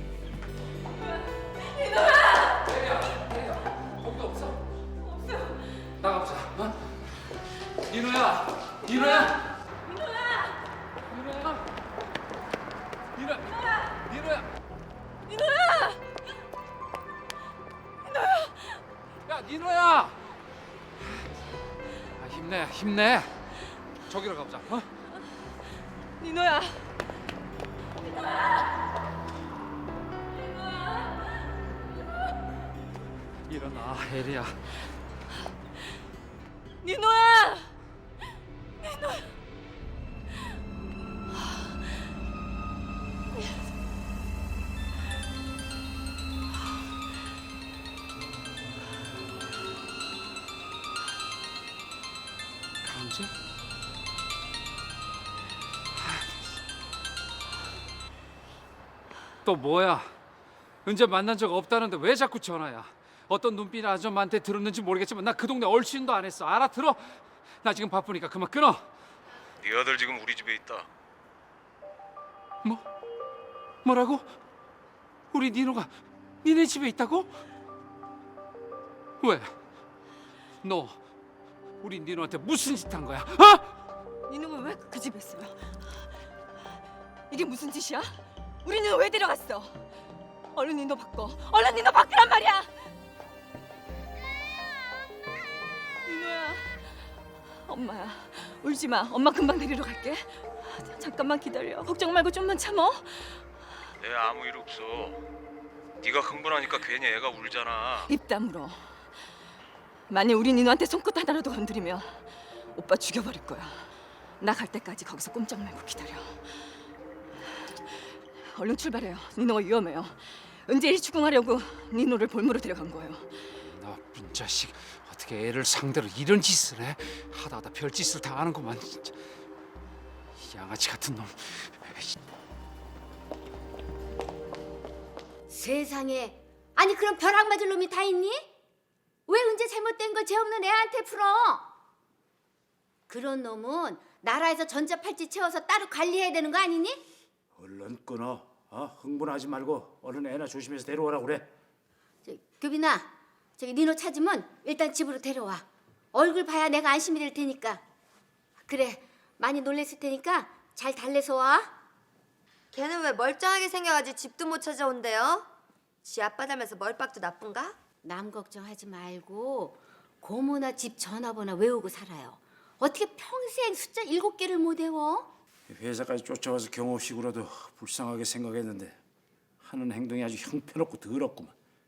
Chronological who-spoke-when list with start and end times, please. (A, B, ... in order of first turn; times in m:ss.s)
0:02.6-0:04.6 A
0:06.0-0:06.9 A
0:07.9-0:09.4 A
0:09.9-0:10.5 B
0:11.1-0:11.6 A
0:13.2-0:14.5 A
0:15.3-0:16.0 B
0:18.1-0:18.8 B
0:19.3-0:20.2 A
0:22.2-0:23.3 A
0:24.1-0:24.9 A
0:26.2-0:26.9 B
0:33.5-0:34.6 A
0:36.8-0:37.7 B
0:38.8-0:39.2 B
0:52.8-0:53.3 A
0:56.0-0:56.3 A
0:59.4-1:00.1 A
1:00.8-1:08.9 A
1:09.7-1:10.8 C
1:13.8-1:14.3 A
1:15.3-1:15.9 A
1:16.4-1:17.4 A
1:19.2-1:19.5 A
1:20.6-1:21.0 A
1:21.8-1:23.7 A
1:24.3-1:26.1 B
1:27.3-1:29.9 B
1:30.5-1:32.7 B
1:36.0-1:36.9 B
1:37.6-1:43.4 B
1:44.0-1:45.2 C
1:46.0-1:48.0 C
1:48.1-1:48.8 B
1:50.1-1:56.6 B
1:57.6-2:03.4 B
2:03.7-2:09.2 A
2:10.4-2:12.2 A
2:15.5-2:18.4 D
2:19.3-2:21.7 D
2:23.1-2:27.0 D
2:27.6-2:31.4 E
2:32.2-2:37.8 D
2:38.6-2:41.7 D
2:42.7-2:45.4 F
2:46.0-2:47.7 F
2:48.0-2:55.3 D
2:55.7-2:59.0 E
2:59.6-3:01.5 E